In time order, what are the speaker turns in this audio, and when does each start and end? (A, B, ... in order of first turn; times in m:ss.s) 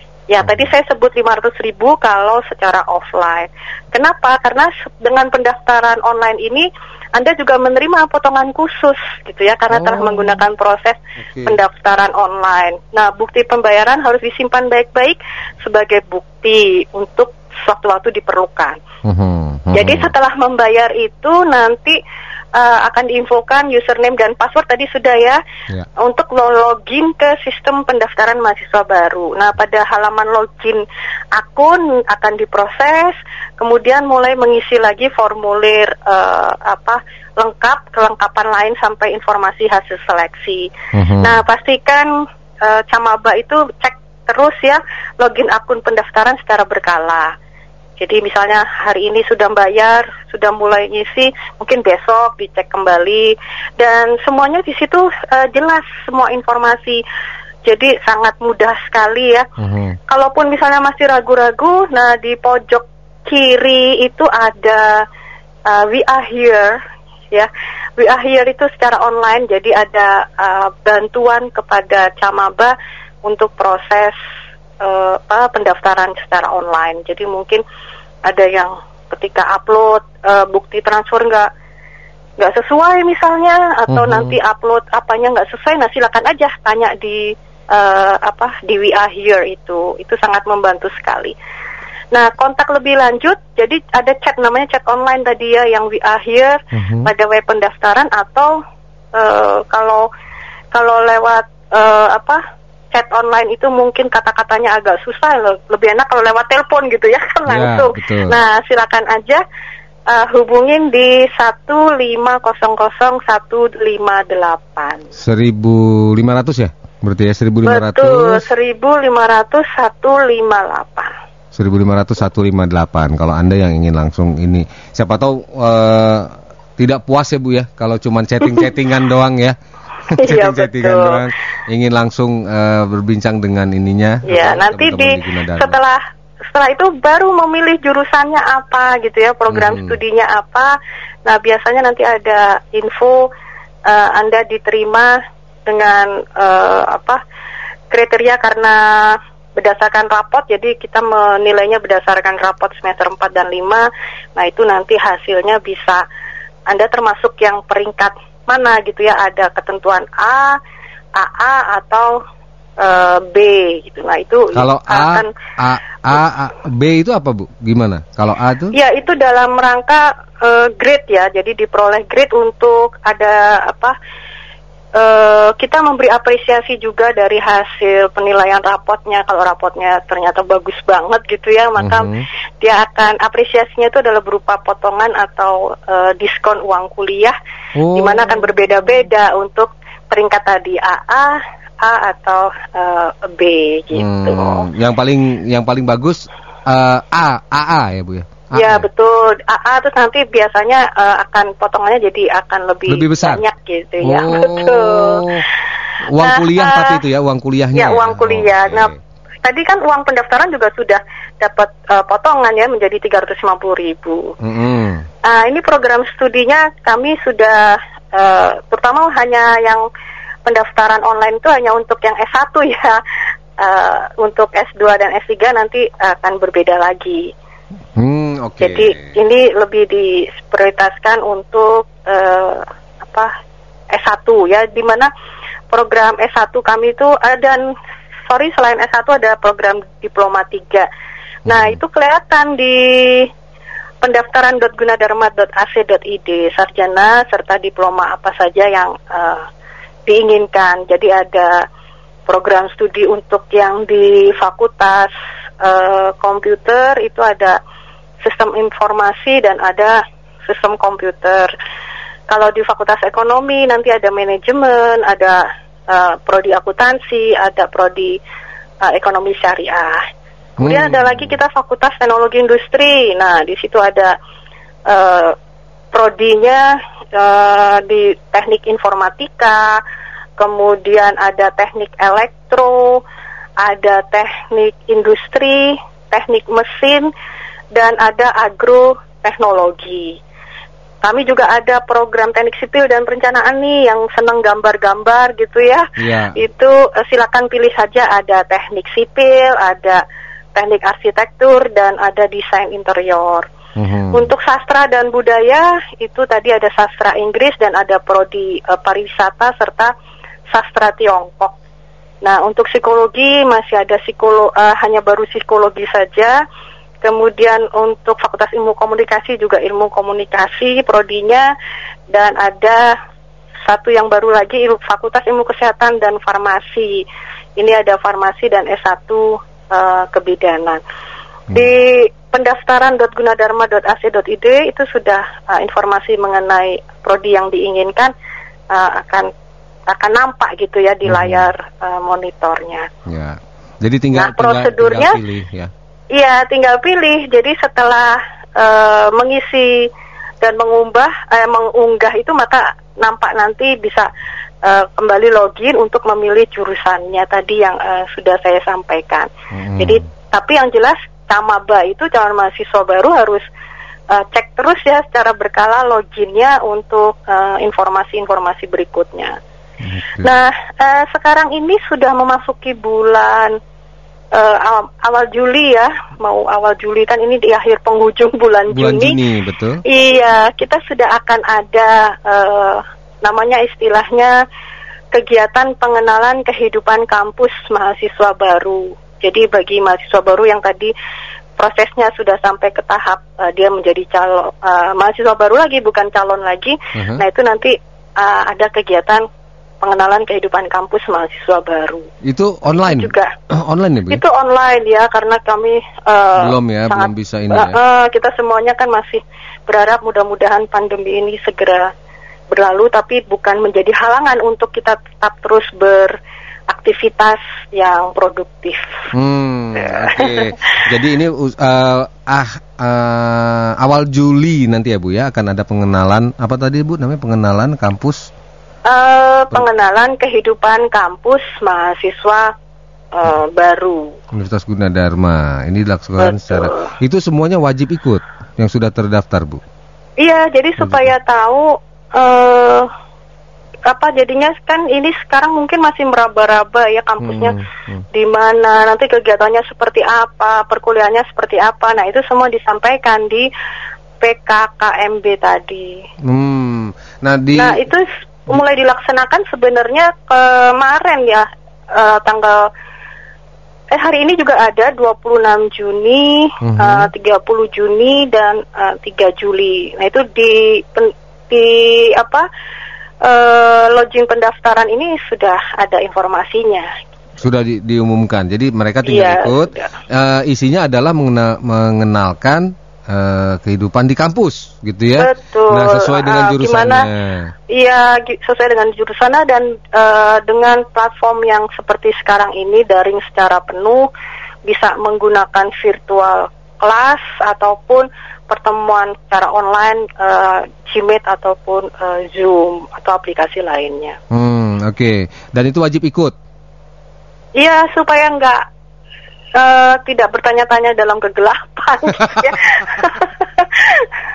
0:00.3-0:18.8 A
0:09.7-0:10.4 B
0:11.3-0:11.6 B
0:19.0-0:20.1 B
0:19.7-0:22.0 A
0:22.6-0:25.4 A
0:26.0-0:30.8 A
0:31.4-0:40.7 A
0:40.9-0:41.4 B
0:41.2-0:42.1 A
0:42.6-0:47.3 A
0:48.0-0:57.0 A
0:57.7-0:59.5 A
0:59.6-1:00.0 B
1:00.1-1:05.0 A
1:05.7-1:06.8 A
1:07.3-1:12.7 A
1:13.2-1:14.2 A
1:14.8-1:17.6 A
1:18.3-1:21.5 A
1:22.4-1:31.3 A
1:23.9-1:24.4 B
1:32.1-1:38.6 A
1:36.7-1:37.1 B
1:39.2-1:40.1 A
1:40.7-1:42.4 A
1:42.9-1:49.4 A
1:47.5-1:48.4 B
1:50.1-1:55.1 A
1:55.2-1:58.5 B
1:57.7-2:01.1 A
2:01.5-2:09.6 B
2:10.1-2:15.8 B
2:10.1-2:11.2 A
2:14.2-2:16.0 A
2:16.5-2:20.7 A
2:19.5-2:20.0 B
2:21.2-2:23.3 A
2:23.9-2:27.2 A
2:27.9-2:36.0 A
2:36.7-2:40.6 A
2:41.2-2:42.2 A
2:42.8-2:45.3 A
2:44.5-2:48.8 B
2:48.7-2:54.0 A
2:55.0-3:02.1 A
3:01.8-3:02.2 B
3:02.6-3:07.3 A
3:07.8-3:08.6 B
3:07.9-3:14.7 A
3:13.9-3:18.9 B
3:18.6-3:25.3 A
3:22.9-3:23.4 B
3:24.0-3:25.4 B
3:26.1-3:29.0 B
3:26.2-3:27.0 A
3:27.8-3:28.9 A
3:29.4-3:34.3 A
3:34.4-3:35.0 B
3:35.2-3:39.8 A
3:40.5-3:43.0 A
3:43.6-3:47.3 A
3:48.0-3:49.1 B
3:48.6-3:53.3 A
3:53.9-3:55.1 A
3:55.7-3:57.6 A
3:58.3-4:00.9 A
4:01.5-4:03.3 A
4:01.5-4:01.8 B
4:04.0-4:09.5 A
4:10.1-4:11.6 A
4:12.3-4:17.6 A
4:18.2-4:21.5 A
4:22.3-4:28.2 A
4:28.8-4:30.0 A
4:30.6-4:31.2 B
4:30.6-4:34.2 A
4:34.9-4:35.4 A
4:35.9-4:39.8 A
4:40.4-4:43.0 A
4:43.6-4:47.1 A
4:47.7-4:50.2 A
4:51.0-5:00.0 A
4:56.0-4:56.4 B
5:00.6-5:03.5 A
5:03.8-5:04.3 B
5:04.1-5:09.9 A
5:10.5-5:11.6 A
5:12.2-5:16.4 A
5:17.0-5:21.5 A
5:22.1-5:22.9 A
5:23.7-5:27.0 A
5:27.6-5:30.8 A
5:31.5-5:38.1 A
5:38.7-5:39.3 A
5:39.9-5:42.9 A
5:41.0-5:41.5 B
5:43.1-5:45.7 B
5:44.2-5:45.2 A
5:46.1-5:49.9 A
5:50.4-5:54.1 A
5:54.6-6:03.4 A
5:59.5-6:00.0 B
6:04.1-6:09.4 A
6:09.8-6:10.3 B
6:10.2-6:13.6 A
6:14.3-6:19.2 A
6:18.7-6:19.8 B
6:19.8-6:24.3 A
6:25.1-6:30.9 A
6:31.6-6:39.2 A
6:36.9-6:37.2 B
6:39.8-6:42.1 A
6:42.2-6:44.2 B
6:42.8-6:43.3 A
6:44.1-6:51.9 A
6:46.4-6:47.8 B
6:52.5-6:56.2 A
6:56.7-6:58.9 A
6:59.1-7:08.3 B
6:59.8-7:00.5 A
7:08.9-7:12.5 A
7:13.1-7:14.2 A
7:14.3-7:19.6 B
7:16.2-7:16.9 A
7:20.2-7:22.9 A
7:20.8-7:21.1 B
7:23.9-7:27.6 A
7:27.2-7:28.0 B
7:28.1-7:33.5 A
7:34.2-7:36.0 A
7:36.2-7:37.9 B
7:37.5-7:42.7 A
7:43.9-7:52.5 A
7:46.6-7:47.1 B
7:53.2-7:56.9 A
7:57.4-8:07.5 B
7:59.0-8:00.0 A
8:05.2-8:07.1 A
8:07.7-8:14.1 A
8:14.7-8:24.2 A
8:24.3-8:26.3 B
8:27.6-8:28.6 A
8:29.6-8:34.1 A
8:32.2-8:33.1 B